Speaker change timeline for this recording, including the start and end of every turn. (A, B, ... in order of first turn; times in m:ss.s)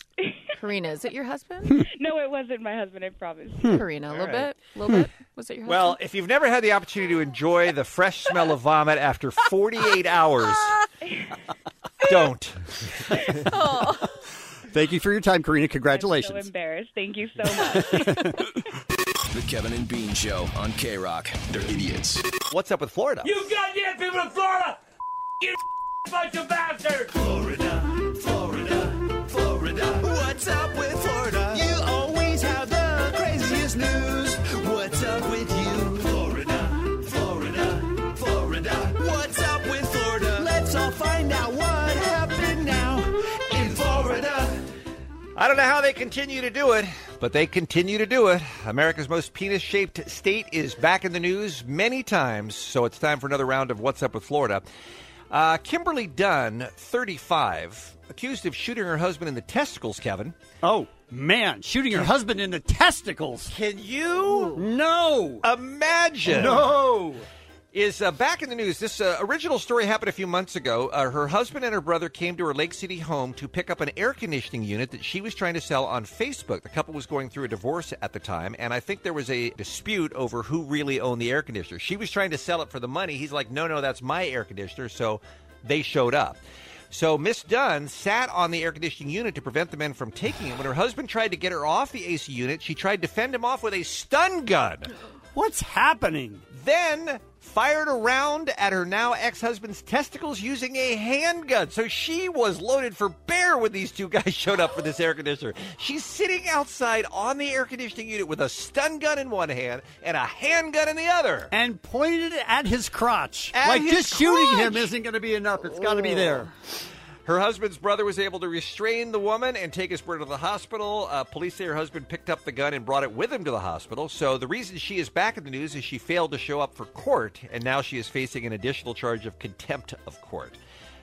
0:00.6-0:01.8 A
0:02.0-0:03.8 B
0:03.7-0:06.0 A
0:05.6-0:10.8 C
0:12.0-0:13.2 C
0:13.5-0:14.1 A
0:14.7-0:16.5 D
0:15.9-0:18.4 B
0:17.5-0:18.4 D
0:19.3-0:22.2 E
0:22.5-0:23.4 C
0:27.0-0:44.6 F
0:45.4-0:54.6 C
0:55.3-1:00.4 C
1:00.6-1:03.5 D
1:03.5-1:04.7 C
1:04.6-1:05.4 D
1:05.4-1:06.8 C
1:06.2-1:07.3 D
1:07.7-1:26.4 C
1:26.9-1:34.9 C
1:35.3-1:36.4 D
1:36.5-1:51.5 C
1:51.5-1:56.5 D
1:53.5-1:54.9 C
1:57.3-2:10.6 C